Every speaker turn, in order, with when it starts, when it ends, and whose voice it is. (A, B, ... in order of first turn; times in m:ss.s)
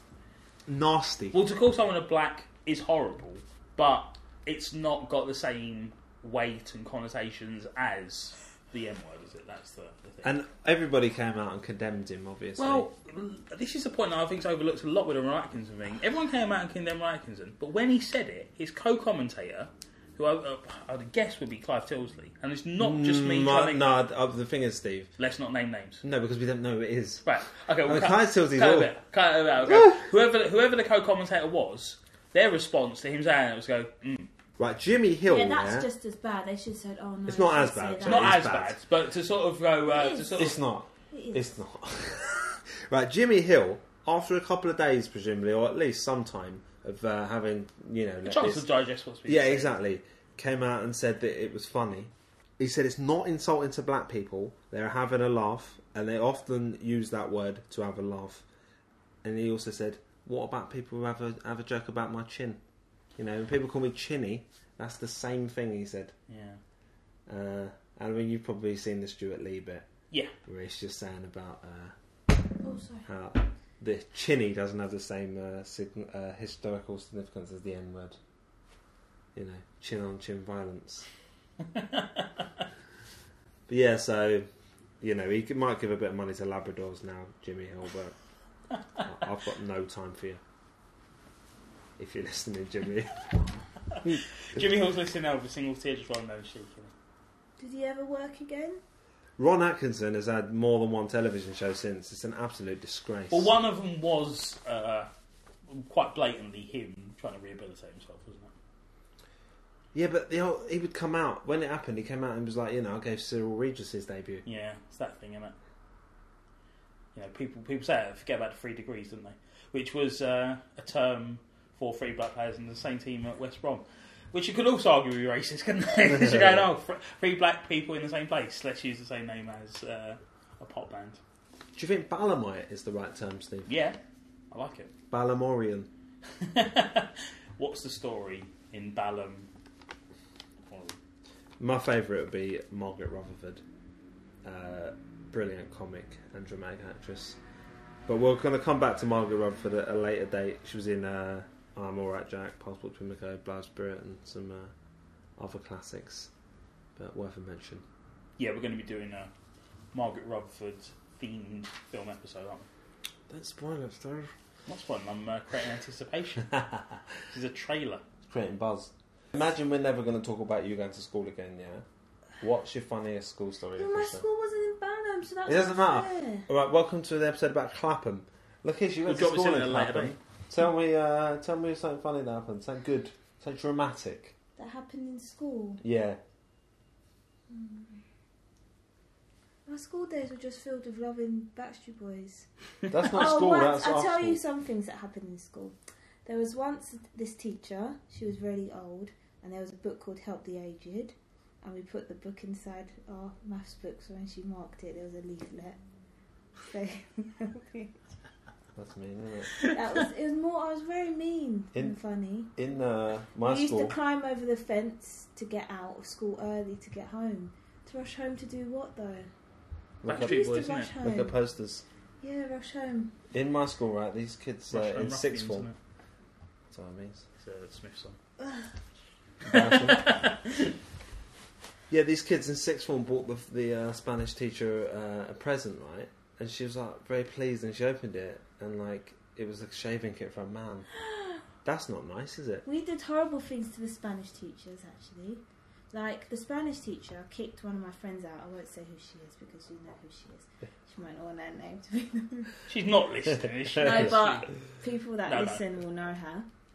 0:00.7-0:01.4 A
0:01.3-0:10.3 B
0:10.2-0:12.9 A
0:12.6-0:23.8 B
0:22.8-0:25.1 A
0:25.2-0:26.0 B
0:26.0-0:27.2 A
0:27.2-0:34.3 B
0:27.8-0:28.9 A
0:29.6-0:30.0 A
0:34.6-0:35.9 A
0:35.3-0:38.4 C
0:37.3-0:38.8 A
0:38.0-0:40.6 B
0:39.9-0:40.5 C
0:40.3-0:48.6 A
0:41.1-0:41.5 C
0:48.3-0:49.8 B
0:49.3-0:58.4 A
0:59.2-1:02.6 A
1:03.2-1:06.1 A
1:06.3-1:06.6 B
1:07.3-1:09.9 A
1:10.4-1:11.9 A
1:12.6-1:13.1 C
1:13.1-1:18.2 A
1:19.4-1:21.1 A
1:21.8-1:22.2 B
1:23.7-1:24.4 A
1:25.0-1:28.1 A
1:29.0-1:30.4 A
1:32.0-1:33.2 A
1:33.9-1:36.9 B
1:37.6-1:38.8 C
1:39.4-1:43.5 A
1:43.3-1:45.1 B
1:45.7-1:48.5 B
1:49.9-1:54.4 A
1:54.4-1:55.6 B
1:57.1-2:11.2 B
2:06.2-2:06.6 A
2:11.8-2:13.7 A
2:13.7-2:14.0 B
2:14.5-2:14.9 B
2:15.1-2:15.9 A
2:16.4-2:19.5 B
2:20.6-2:21.0 B
2:21.6-2:23.6 A
2:24.4-2:27.4 A
2:28.1-2:34.7 A
2:35.4-2:36.3 A
2:37.0-2:37.8 A
2:38.4-2:39.3 B
2:39.9-2:42.7 B
2:43.3-2:44.3 A
2:44.7-2:46.6 B
2:47.2-2:48.0 B
2:48.3-2:51.8 A
2:52.4-2:54.2 A
2:53.8-2:56.5 C
2:55.4-3:04.3 A
2:59.1-3:00.2 B
3:04.6-3:05.8 C
3:05.8-3:06.2 A
3:07.5-3:08.0 C
3:09.6-3:12.5 C
3:12.9-3:14.4 A
3:13.0-3:25.8 C
3:26.6-3:27.9 C
3:28.8-3:29.6 A
3:29.6-3:32.5 C
3:32.6-3:33.9 A
3:33.4-3:39.3 C
3:40.0-3:40.4 A
3:40.0-3:40.9 B
3:40.1-3:41.4 C
3:41.0-3:41.8 A
3:42.2-3:43.1 C
3:43.3-3:45.7 A
3:44.7-3:45.8 B
3:46.7-3:47.3 A
3:47.4-3:48.2 B
3:48.4-3:48.7 C
3:49.4-3:50.2 A
3:49.4-3:50.7 B
3:51.9-4:00.9 A
4:01.1-4:01.4 C
4:01.6-4:02.6 A
4:02.6-4:12.6 C
4:12.7-4:14.5 B
4:13.8-4:16.4 C
4:15.3-4:15.6 B